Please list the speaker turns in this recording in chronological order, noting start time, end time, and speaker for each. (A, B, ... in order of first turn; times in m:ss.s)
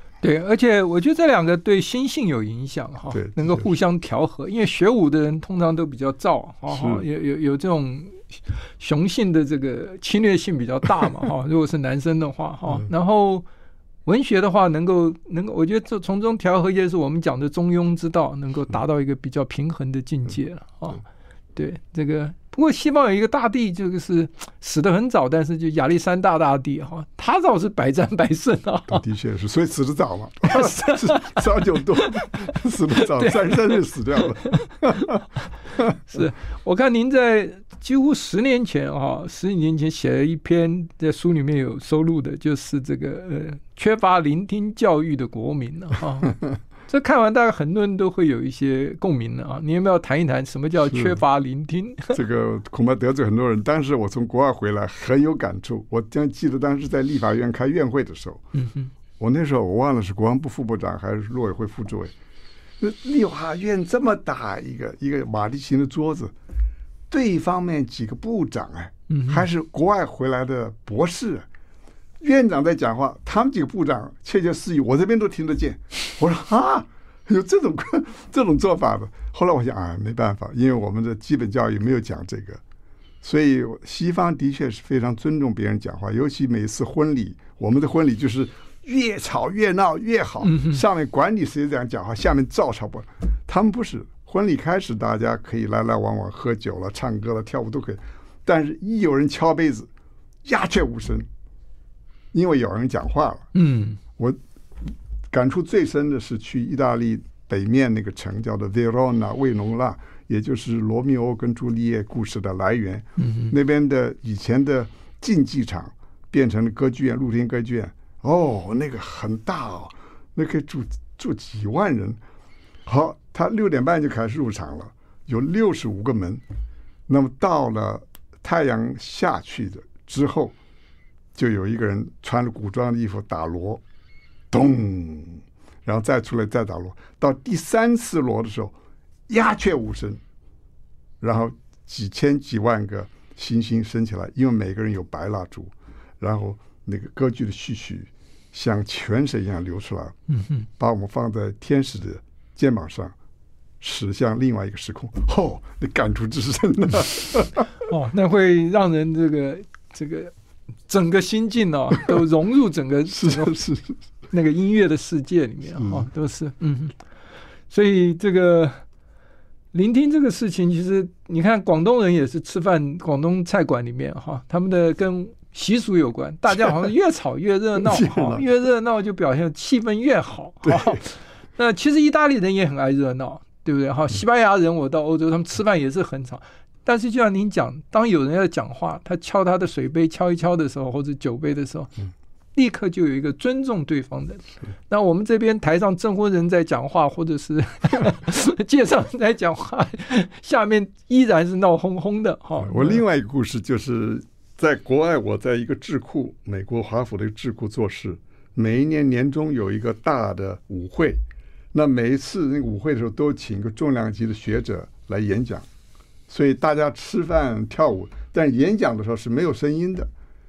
0:00.2-0:08.3 A
0:03.1-0:03.7 B
0:06.7-0:07.0 B
0:08.8-0:13.5 A
0:14.1-0:21.0 A
0:21.6-0:29.0 A
0:28.9-0:35.2 B
0:30.5-0:33.7 A
0:34.7-0:35.2 A
0:35.8-0:36.2 B
0:36.1-0:52.2 A
0:50.9-0:51.2 B
0:52.1-0:58.4 B
0:58.5-0:58.9 A
0:59.2-1:02.1 B
1:02.8-1:06.3 B
1:07.1-1:11.5 B
1:09.1-1:09.5 A
1:12.2-1:22.6 B
1:23.2-1:39.9 B
1:30.4-1:30.8 A
1:40.4-1:41.3 B
1:42.3-1:43.5 B
1:43.5-1:44.0 A
1:45.3-2:02.2 B
1:53.2-1:53.5 A
2:02.9-2:06.4 B
2:07.1-2:10.5 B
2:11.4-2:13.8 B
2:14.5-2:18.8 B
2:19.3-2:20.2 B
2:21.2-2:30.2 B
2:30.3-2:30.7 A
2:30.8-2:33.1 B
2:33.8-2:37.7 B
2:37.9-2:40.3 A
2:40.9-2:43.6 A
2:43.1-2:44.0 B
2:44.3-2:47.0 A
2:45.8-2:46.0 B
2:47.7-2:48.8 A
2:49.7-3:11.9 A
2:57.8-2:58.5 B
3:00.6-3:01.0 B
3:12.6-3:23.0 A
3:22.6-3:31.2 B
3:31.7-3:35.7 B
3:36.3-3:40.1 B